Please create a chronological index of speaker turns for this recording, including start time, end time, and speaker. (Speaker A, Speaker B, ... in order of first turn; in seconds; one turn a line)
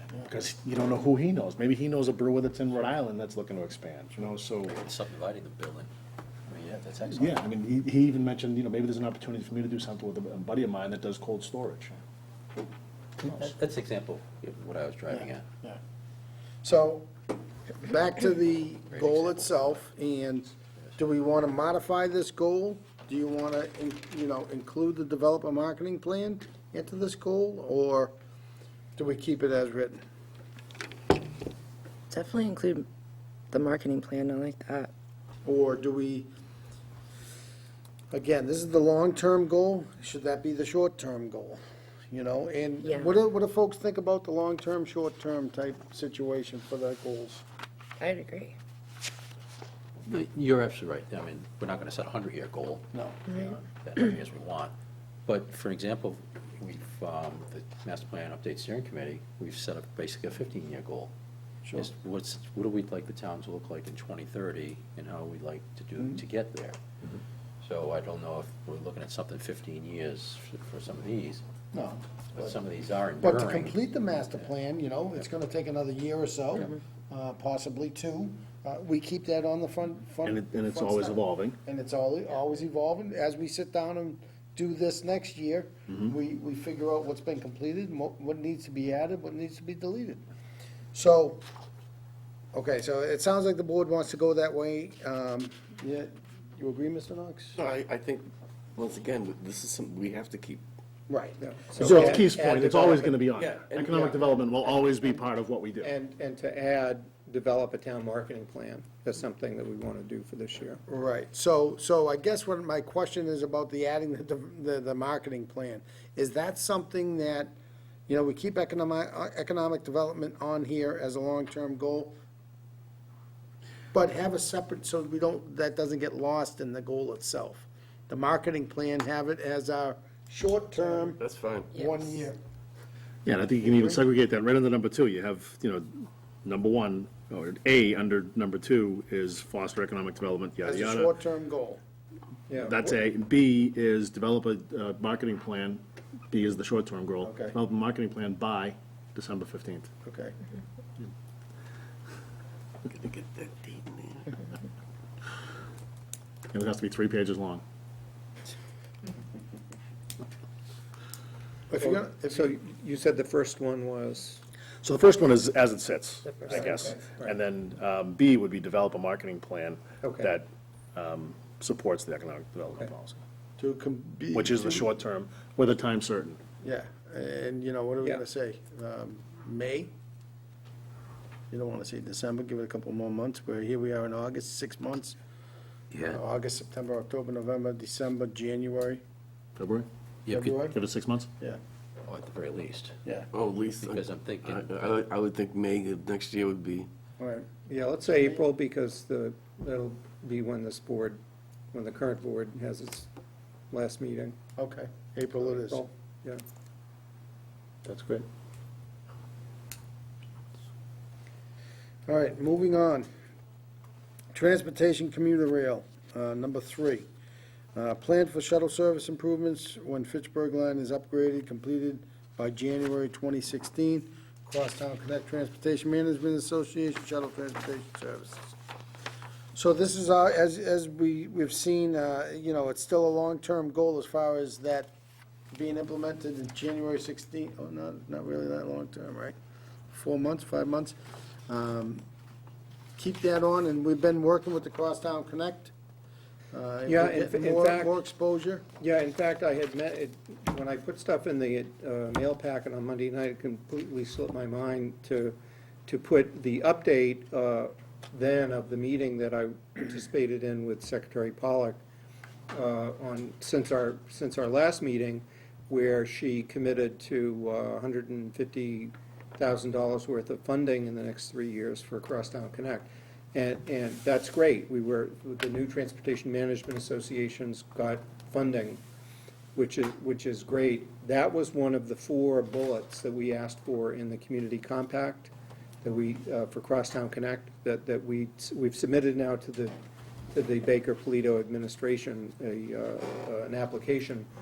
Speaker A: 0.2-4.8
Speaker B: 4.7-5.9
Speaker B: 6.5-7.4
Speaker A: 7.1-12.0
Speaker B: 13.2-15.4
Speaker C: 15.1-15.8
Speaker C: 16.6-17.1
Speaker C: 17.7-28.1
Speaker B: 18.9-19.7
Speaker C: 28.9-30.0
Speaker D: 32.1-32.9
Speaker D: 33.5-34.9
Speaker C: 35.4-36.3
Speaker C: 38.1-47.4
Speaker D: 42.8-43.1
Speaker D: 48.0-48.5
Speaker B: 50.0-54.7
Speaker B: 55.2-61.1
Speaker B: 61.7-66.8
Speaker B: 67.6-71.4
Speaker C: 71.7-72.5
Speaker B: 72.3-73.8
Speaker C: 73.2-90.2
Speaker A: 80.2-81.6
Speaker C: 90.9-91.4
Speaker C: 92.5-97.6
Speaker E: 97.5-100.6
Speaker C: 101.1-102.3
Speaker F: 101.4-103.3
Speaker A: 101.8-105.9
Speaker E: 103.4-104.1
Speaker F: 105.8-110.8
Speaker C: 110.9-117.5
Speaker C: 118.1-122.1
Speaker C: 123.9-132.4
Speaker E: 130.9-131.7
Speaker A: 133.2-141.1
Speaker C: 133.7-134.0
Speaker C: 140.6-141.8
Speaker F: 142.5-142.9
Speaker A: 142.6-149.9
Speaker C: 147.2-147.6
Speaker C: 150.0-150.3
Speaker E: 152.9-154.4
Speaker A: 156.5-157.6
Speaker C: 161.7-162.5
Speaker F: 161.8-164.4
Speaker A: 164.8-173.2
Speaker F: 166.5-167.3
Speaker F: 170.0-170.3
Speaker C: 173.6-174.9
Speaker A: 174.3-176.4
Speaker C: 176.6-179.9
Speaker C: 181.5-185.2
Speaker B: 185.9-186.2
Speaker C: 186.0-189.0
Speaker A: 189.6-189.9
Speaker B: 190.2-190.6
Speaker C: 190.3-190.8
Speaker A: 190.7-191.3
Speaker B: 192.0-192.9
Speaker E: 193.3-196.9
Speaker B: 193.8-194.8
Speaker C: 197.2-197.5
Speaker F: 197.7-201.2
Speaker C: 198.1-198.4
Speaker F: 201.7-203.1
Speaker F: 203.7-204.4
Speaker C: 204.6-205.9
Speaker F: 205.4-206.4
Speaker A: 207.8-208.2
Speaker C: 212.1-213.1
Speaker C: 214.3-217.1
Speaker C: 217.7-228.5
Speaker C: 229.5-234.9
Speaker C: 235.5-239.3
Speaker C: 239.9-240.9
Speaker C: 241.5-242.0
Speaker C: 243.0-245.7
Speaker C: 246.5-248.6
Speaker F: 246.8-247.9
Speaker F: 248.8-261.8
Speaker F: 262.5-278.8
Speaker F: 279.5-285.3
Speaker F: 285.8-289.8
Speaker F: 290.3-294.3